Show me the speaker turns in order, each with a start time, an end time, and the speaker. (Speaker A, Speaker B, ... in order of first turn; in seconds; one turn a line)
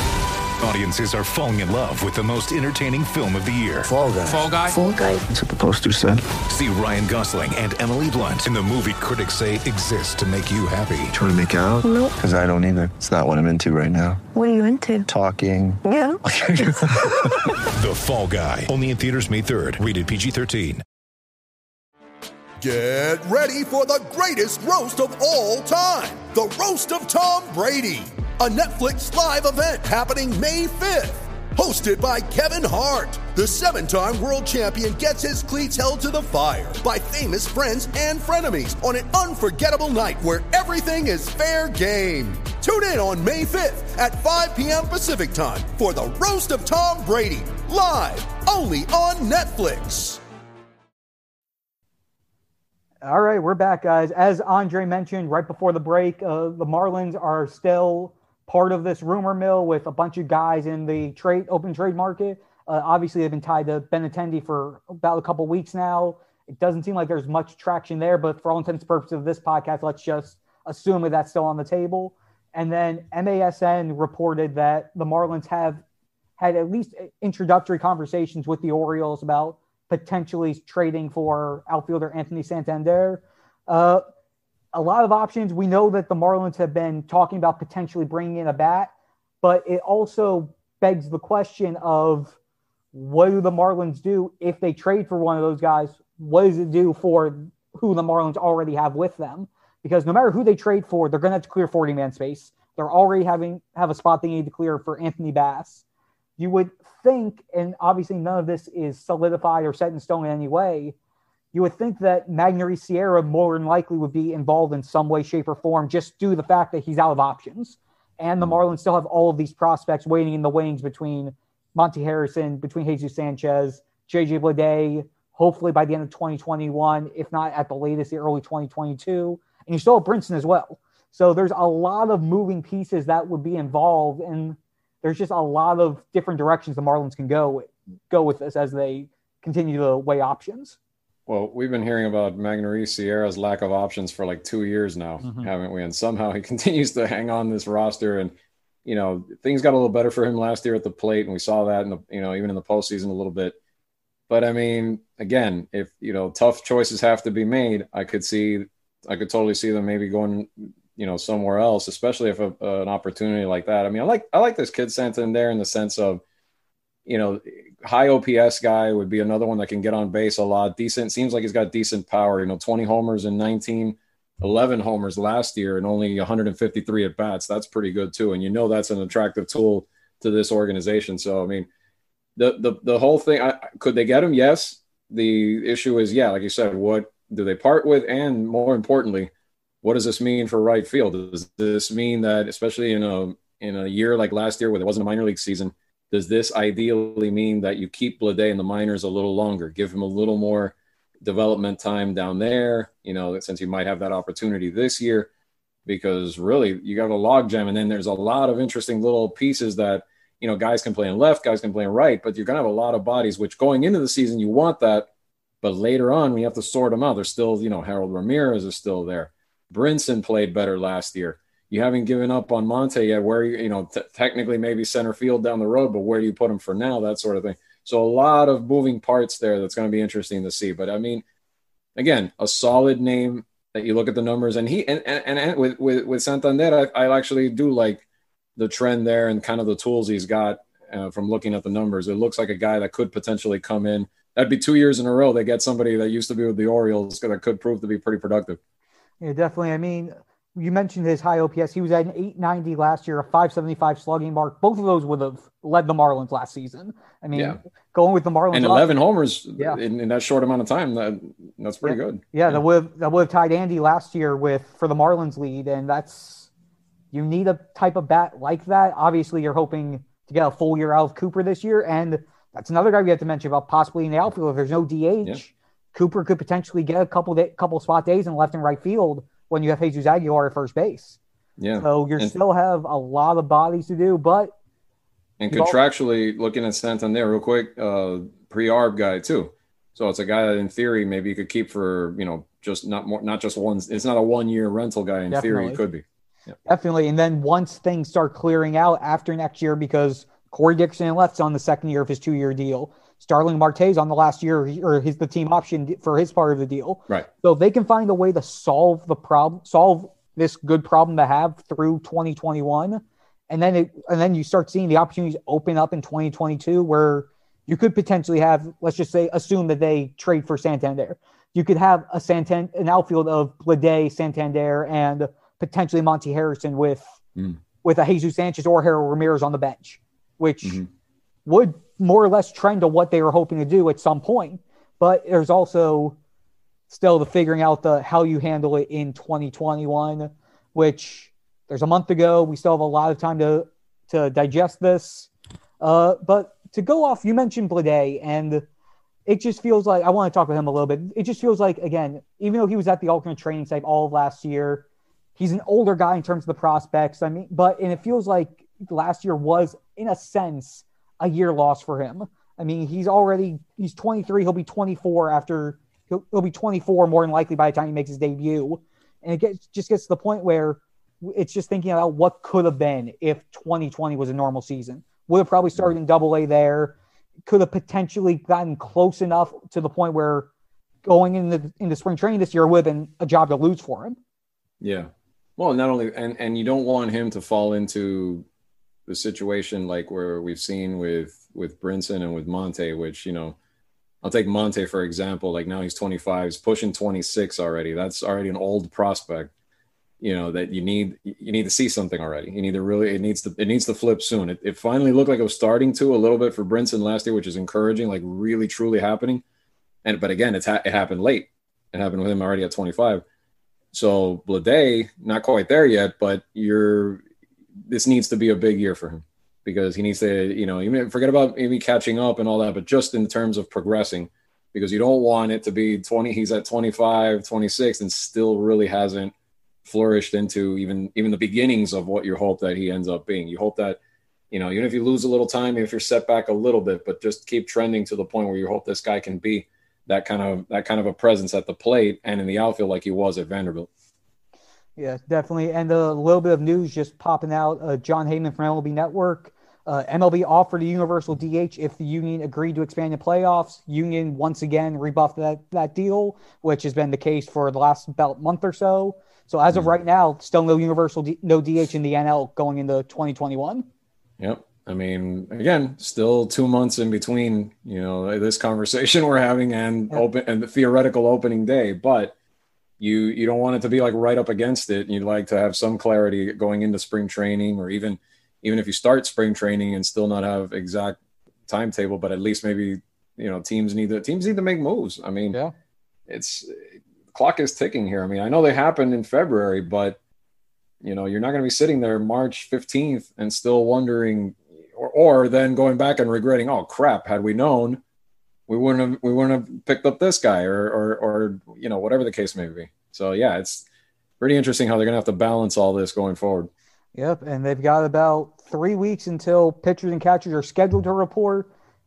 Speaker A: 0.6-4.8
Speaker B: 3.8-4.5
Speaker C: 4.7-5.2
Speaker B: 5.3-6.2
Speaker A: 6.5-11.2
Speaker B: 11.1-14.2
Speaker C: 11.8-12.2
Speaker C: 14.3-15.1
Speaker B: 15.1-17.5
Speaker C: 15.8-16.8
Speaker A: 17.7-20.8
Speaker D: 22.6-50.2
Speaker E: 53.0-75.8
Speaker E: 76.4-84.0
Speaker E: 84.7-92.3
Speaker E: 92.9-105.8
Speaker E: 106.4-110.9
Speaker E: 111.5-140.8
Speaker F: 141.3-148.3
Speaker E: 145.2-145.5
Speaker F: 148.8-153.6
Speaker F: 154.3-166.2
Speaker F: 167.1-181.7
Speaker F: 182.4-189.3
Speaker F: 189.8-205.3
Speaker F: 205.8-215.1
Speaker F: 215.6-231.2
Speaker F: 231.9-238.0
Speaker F: 238.6-248.6
Speaker E: 249.2-258.9
Speaker F: 258.5-262.6
Speaker E: 261.8-266.5
Speaker E: 267.1-281.2
Speaker F: 281.6-282.3
Speaker E: 281.8-284.5
Speaker F: 285.4-296.0
Speaker E: 285.5-285.8
Speaker E: 295.3-295.8
Speaker E: 296.6-327.0
Speaker E: 327.8-330.8
Speaker E: 331.4-336.1
Speaker E: 336.9-348.6
Speaker E: 349.2-376.9
Speaker E: 377.5-380.5
Speaker E: 381.0-384.2
Speaker F: 384.8-388.4
Speaker F: 389.1-393.6
Speaker F: 394.2-399.5
Speaker F: 400.2-409.4
Speaker F: 410.0-413.2
Speaker F: 413.9-417.2
Speaker F: 417.9-429.3
Speaker F: 429.8-434.0
Speaker F: 434.5-443.9
Speaker E: 445.0-463.8
Speaker F: 464.4-472.3
Speaker F: 473.0-485.6
Speaker F: 486.3-490.2
Speaker F: 491.0-498.0
Speaker F: 498.7-503.9
Speaker F: 504.4-506.7
Speaker E: 507.1-511.7